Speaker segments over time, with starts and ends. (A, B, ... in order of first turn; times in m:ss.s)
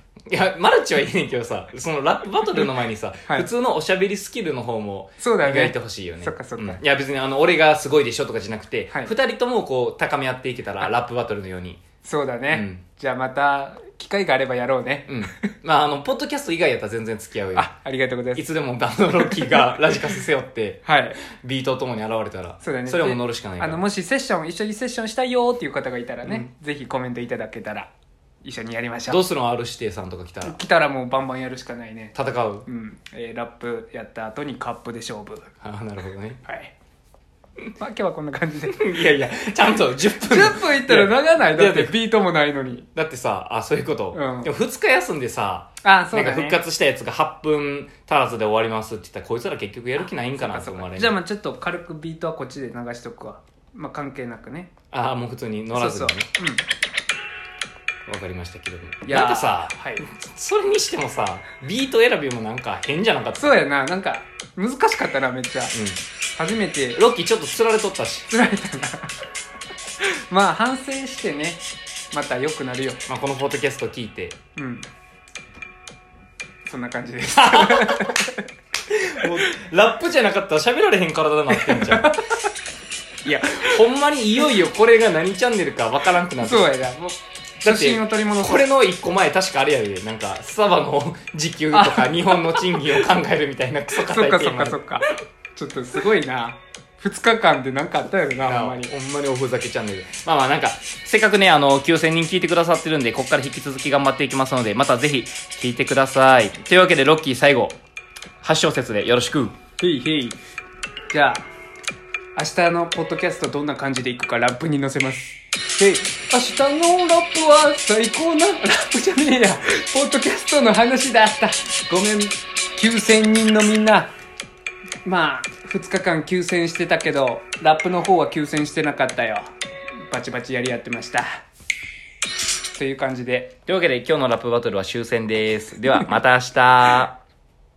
0:00.3-0:11.8 A
0:05.2-0:06.8 B
0:12.0-0:15.3 B
0:12.5-0:12.8 A
0:15.1-0:17.7 A
0:17.5-0:18.4 B
0:18.3-0:20.8 A
0:19.2-0:19.6 B
0:20.8-0:21.2 B
0:21.4-0:23.8 A
0:22.6-0:27.9 B
0:28.4-0:29.2 B
0:29.1-0:30.6 A
0:30.4-0:32.1 B
0:32.1-0:32.6 A
0:32.6-0:35.5 B
0:35.6-0:36.4 A
0:36.4-0:36.7 B
0:37.8-0:38.9 B
0:38.7-0:42.0 A
0:40.1-0:42.8 B
0:42.9-0:51.2 A
0:44.1-0:44.5 B
0:45.8-0:46.6 B
0:50.4-0:54.7 B
0:54.9-0:56.3 A
0:55.7-0:56.6 B
0:58.1-1:03.6 A
0:59.0-1:00.0 B
1:03.4-1:05.7 B
1:05.7-1:06.0 A
1:06.4-1:07.0 B
1:07.0-1:08.3 A
1:08.3-1:09.1 B
1:10.0-1:13.0 B
1:13.1-1:14.4 A
1:14.6-1:14.9 B
1:16.6-1:18.4 B
1:17.3-1:18.1 A
1:18.9-1:22.2 A
1:21.5-1:22.2 B
1:23.2-1:26.7 A
1:26.4-1:28.6 B
1:27.6-1:34.8 A
1:31.7-1:33.1 B
1:34.0-1:38.9 B
1:38.4-1:47.8 A
1:48.4-1:49.6 A
1:49.8-1:50.4 B
1:51.1-1:51.4 B
1:52.4-2:04.1 B
2:05.0-2:09.5 B
2:10.1-2:11.4 B
2:12.7-2:13.5 B
2:13.6-2:17.2 A